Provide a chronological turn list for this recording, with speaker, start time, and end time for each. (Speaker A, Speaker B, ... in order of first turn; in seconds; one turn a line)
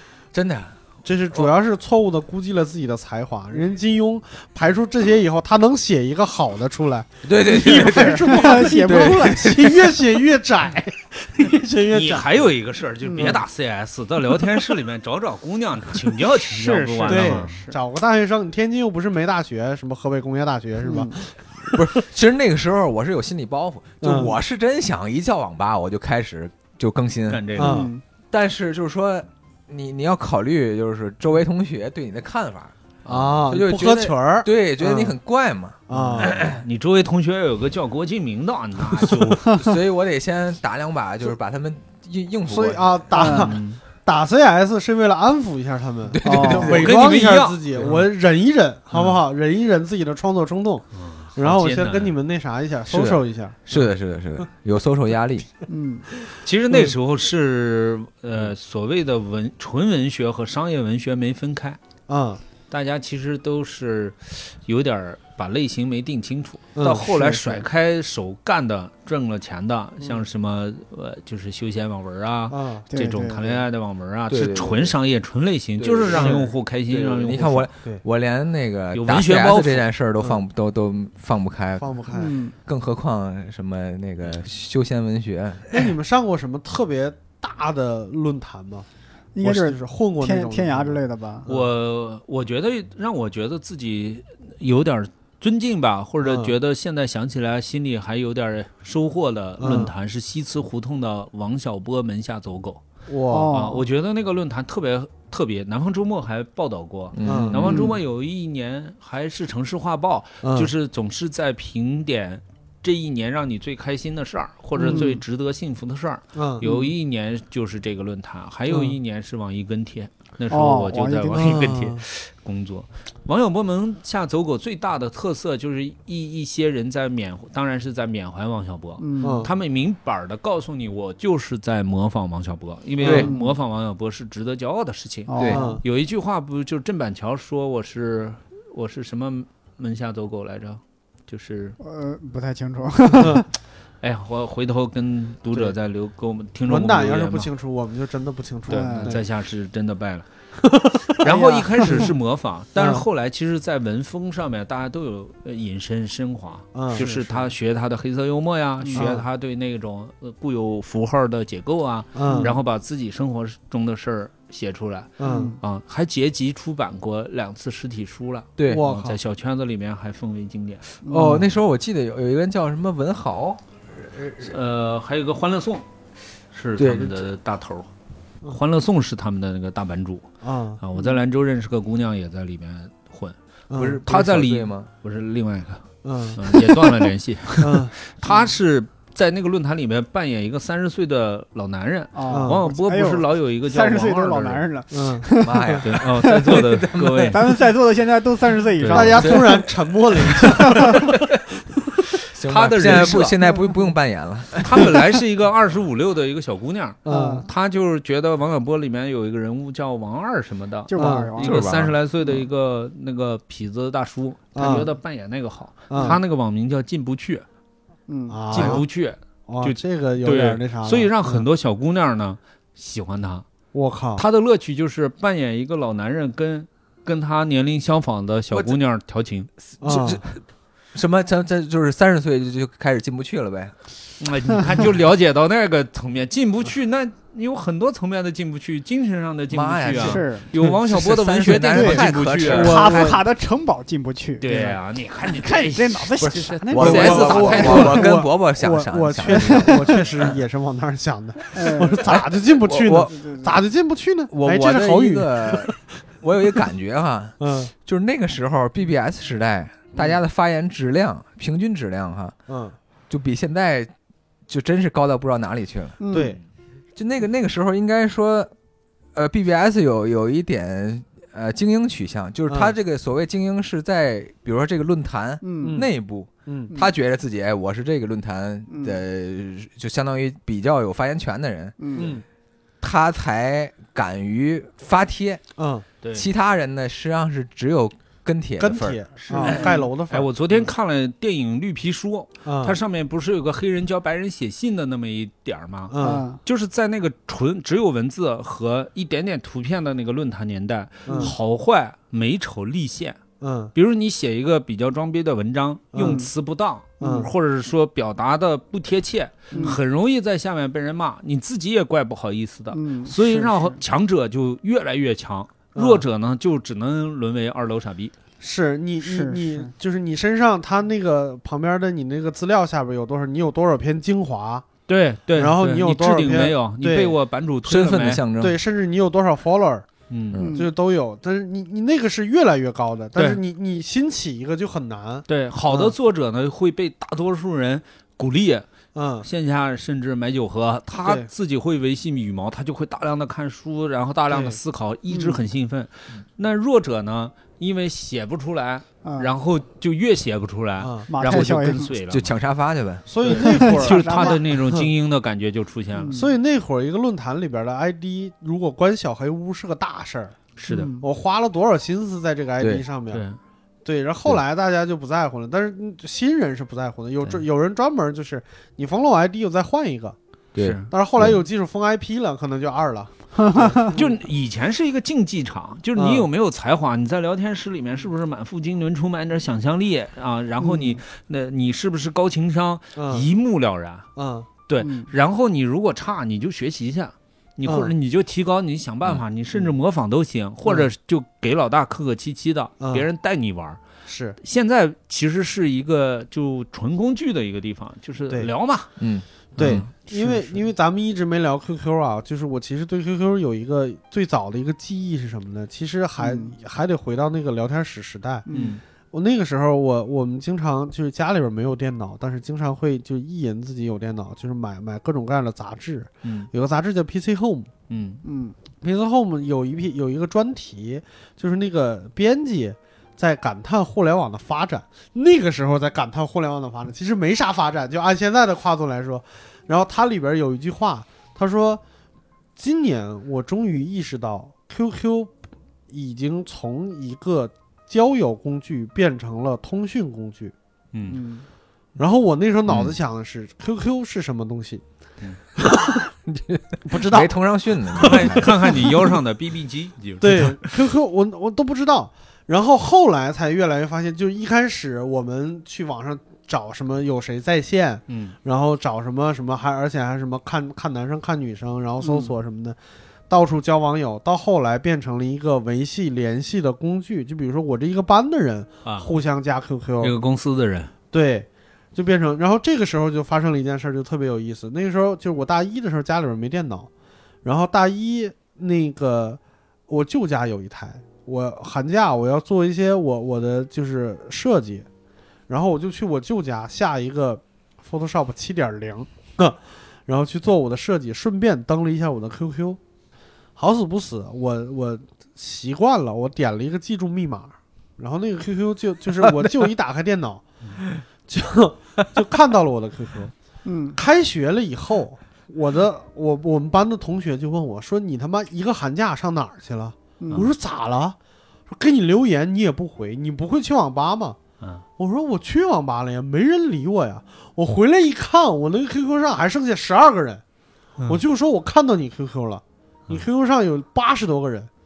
Speaker A: 0.3-0.8
Speaker B: 1.0-12.5
Speaker A: 7.2-10.0
Speaker C: 7.5-9.7
Speaker D: 11.9-17.6
Speaker C: 13.0-13.4
Speaker C: 16.4-17.8
Speaker B: 17.1-22.0
Speaker C: 20.8-21.2
Speaker A: 21.7-27.5
Speaker B: 24.0-24.4
Speaker D: 27.3-27.9
Speaker B: 27.6-27.9
Speaker C: 27.6-28.0
Speaker A: 28.3-32.7
Speaker D: 33.0-33.4
Speaker B: 33.1-35.1
Speaker A: 33.3-36.6
Speaker B: 35.9-36.4
Speaker D: 35.9-39.6
Speaker A: 39.0-43.1
Speaker C: 39.5-39.8
Speaker B: 42.5-53.9
Speaker C: 43.1-43.6
Speaker D: 43.2-43.8
Speaker A: 46.1-46.9
Speaker C: 46.2-46.7
Speaker D: 46.5-48.1
Speaker D: 48.9-49.2
Speaker D: 51.0-52.1
Speaker D: 52.9-53.2
Speaker A: 53.7-55.5
Speaker C: 55.7-56.1
Speaker D: 56.4-61.8
Speaker B: 62.1-62.4
Speaker D: 62.7-77.7
Speaker B: 66.8-67.3
Speaker C: 67.0-67.6
Speaker B: 70.0-70.2
Speaker B: 72.5-72.9
Speaker C: 72.9-73.6
Speaker A: 74.3-75.0
Speaker A: 75.8-76.5
Speaker B: 76.1-78.0
Speaker A: 77.2-85.9
Speaker D: 78.9-79.9
Speaker B: 81.8-82.3
Speaker C: 82.1-82.5
Speaker B: 85.7-88.9
Speaker C: 89.3-91.5
Speaker B: 89.4-91.7
Speaker D: 91.5-102.8
Speaker B: 96.2-96.5
Speaker B: 99.6-99.9
Speaker B: 103.1-103.5
Speaker C: 103.3-103.8
Speaker D: 103.5-141.8
Speaker A: 107.1-107.8
Speaker B: 107.2-108.0
Speaker C: 107.7-108.0
Speaker B: 110.4-110.7
Speaker B: 114.8-115.2
Speaker C: 114.9-115.1
Speaker B: 116.3-116.6
Speaker C: 116.6-116.9
Speaker B: 118.7-119.0
Speaker C: 120.5-121.6
Speaker B: 121.3-122.0
Speaker C: 129.0-129.4
Speaker B: 129.2-129.5
Speaker B: 133.0-133.3
Speaker A: 133.0-133.3
Speaker C: 133.2-133.6
Speaker C: 135.3-135.8
Speaker B: 135.5-135.8
Speaker C: 141.8-143.5
Speaker B: 143.2-143.4
Speaker D: 144.0-147.5
Speaker B: 146.7-149.2
Speaker D: 148.7-150.3
Speaker C: 148.7-149.2
Speaker B: 150.7-151.2
Speaker D: 151.1-171.0
Speaker C: 151.2-152.1
Speaker B: 152.8-153.1
Speaker B: 156.8-157.4
Speaker C: 157.0-157.3
Speaker C: 158.8-159.1
Speaker B: 158.9-159.3
Speaker B: 162.2-162.5
Speaker C: 162.2-162.5
Speaker B: 165.2-165.5
Speaker C: 165.2-165.6
Speaker A: 168.6-168.8
Speaker B: 168.7-169.2
Speaker C: 171.0-171.5
Speaker A: 171.1-174.5
Speaker D: 174.4-175.8
Speaker D: 176.5-177.9
Speaker A: 176.8-177.3
Speaker D: 178.5-180.3
Speaker B: 180.4-180.8
Speaker D: 180.8-183.4
Speaker B: 183.7-184.0
Speaker A: 183.8-184.9
Speaker D: 184.1-194.6
Speaker B: 186.0-186.4
Speaker B: 187.6-187.9
Speaker C: 192.1-196.6
Speaker B: 192.3-192.6
Speaker B: 194.9-195.8
Speaker A: 195.4-197.4
Speaker D: 195.8-197.4
Speaker C: 197.3-199.5
Speaker D: 198.8-199.4
Speaker A: 198.9-199.7
Speaker B: 198.9-201.2
Speaker A: 200.2-200.8
Speaker C: 200.6-201.0
Speaker A: 202.3-205.1
Speaker D: 202.4-203.4
Speaker D: 204.6-217.4
Speaker B: 207.1-207.5
Speaker C: 207.1-207.5
Speaker C: 210.9-211.6
Speaker B: 210.9-211.3
Speaker A: 211.4-212.0
Speaker B: 214.6-214.9
Speaker B: 215.9-216.2
Speaker C: 218.1-218.8
Speaker B: 218.3-218.8
Speaker D: 218.5-223.4
Speaker B: 219.5-221.5
Speaker B: 223.7-224.2
Speaker D: 224.2-229.5
Speaker A: 228.5-228.8
Speaker B: 229.8-230.2
Speaker A: 229.8-230.4
Speaker A: 230.9-233.7
Speaker D: 234.2-243.1
Speaker A: 239.5-243.1
Speaker C: 239.9-240.5
Speaker C: 241.7-244.5
Speaker B: 242.5-243.2
Speaker D: 244.4-248.1
Speaker B: 244.5-244.7
Speaker C: 245.3-248.1
Speaker A: 246.7-250.1
Speaker B: 246.8-255.8
Speaker C: 249.3-249.9
Speaker C: 251.5-252.2
Speaker A: 252.6-253.1
Speaker C: 253.1-253.5
Speaker A: 254.3-262.4
Speaker B: 257.4-257.7
Speaker B: 259.9-260.2
Speaker B: 262.5-262.8
Speaker A: 263.1-263.9
Speaker A: 264.5-266.0
Speaker C: 266.0-266.4
Speaker B: 266.1-266.4
Speaker A: 267.0-268.5
Speaker A: 269.1-282.1
Speaker C: 275.4-275.8
Speaker B: 275.6-275.9
Speaker B: 276.5-276.7
Speaker C: 278.7-279.0
Speaker C: 281.8-282.1
Speaker B: 282.0-282.2
Speaker A: 282.8-285.4
Speaker B: 285.6-285.9
Speaker D: 286.0-286.3
Speaker A: 286.1-289.0
Speaker B: 288.6-290.7
Speaker D: 289.2-303.2
Speaker C: 289.3-289.8
Speaker B: 292.5-292.8
Speaker B: 295.9-296.3
Speaker C: 296.0-296.4
Speaker B: 301.1-301.4
Speaker C: 301.1-301.3
Speaker B: 303.4-303.7
Speaker D: 303.7-318.1
Speaker B: 305.9-306.2
Speaker C: 306.0-306.3
Speaker B: 307.0-307.3
Speaker C: 309.5-309.8
Speaker C: 312.7-313.8
Speaker B: 315.8-316.0
Speaker B: 318.4-324.7
Speaker C: 319.0-319.7
Speaker D: 324.9-328.2
Speaker B: 325.4-327.2
Speaker A: 327.6-328.6
Speaker B: 328.4-329.9
Speaker D: 330.1-330.4
Speaker A: 330.3-330.6
Speaker C: 330.4-330.7
Speaker B: 330.4-335.9
Speaker D: 333.2-333.4
Speaker D: 335.3-338.7
Speaker B: 338.9-339.3
Speaker D: 339.2-352.3
Speaker B: 341.0-341.3
Speaker B: 344.3-344.6
Speaker C: 345.1-345.4
Speaker C: 349.0-349.3
Speaker B: 350.8-351.1
Speaker C: 351.1-351.9
Speaker A: 351.3-353.1
Speaker B: 353.1-354.9
Speaker D: 353.2-356.2
Speaker C: 353.3-354.4
Speaker C: 356.0-356.3
Speaker B: 356.1-360.4
Speaker D: 360.6-360.9
Speaker C: 360.7-361.1
Speaker B: 361.0-363.2
Speaker A: 362.6-362.8
Speaker D: 363.1-363.4
Speaker B: 363.9-370.2
Speaker A: 370.6-371.4
Speaker D: 370.6-370.9
Speaker B: 370.9-374.2
Speaker C: 373.4-373.9
Speaker D: 373.9-384.1
Speaker B: 376.0-376.3
Speaker B: 383.0-383.3
Speaker B: 384.2-384.5
Speaker D: 384.7-393.8
Speaker C: 384.8-385.1
Speaker B: 387.6-387.9
Speaker B: 390.6-390.9
Speaker B: 392.8-393.1
Speaker B: 394.1-394.4
Speaker D: 394.4-398.9
Speaker A: 399.0-399.9
Speaker D: 399.6-400.4
Speaker B: 399.6-408.5
Speaker C: 406.2-406.5
Speaker C: 408.5-408.8
Speaker D: 408.5-408.8
Speaker B: 409.1-417.7
Speaker D: 416.2-416.5
Speaker D: 417.9-418.2
Speaker C: 418.2-418.6
Speaker B: 418.8-431.8
Speaker B: 432.6-435.4
Speaker B: 435.9-440.5
Speaker D: 440.9-441.2
Speaker C: 441.1-441.4
Speaker B: 442.0-444.8
Speaker D: 442.7-442.9
Speaker B: 445.6-446.1
Speaker A: 446.3-448.7
Speaker B: 446.9-447.3
Speaker B: 447.9-449.2
Speaker D: 448.0-450.6
Speaker B: 450.2-462.8
Speaker D: 458.1-458.4
Speaker B: 463.3-470.1
Speaker D: 468.8-469.1
Speaker D: 470.0-470.9
Speaker B: 471.1-476.9
Speaker B: 477.4-484.9
Speaker B: 485.5-492.8
Speaker B: 493.6-500.4
Speaker B: 501.3-503.3
Speaker C: 503.6-504.0
Speaker B: 504.0-511.2
Speaker C: 510.2-510.5
Speaker B: 511.7-514.4
Speaker B: 515.0-520.4
Speaker B: 521.1-524.7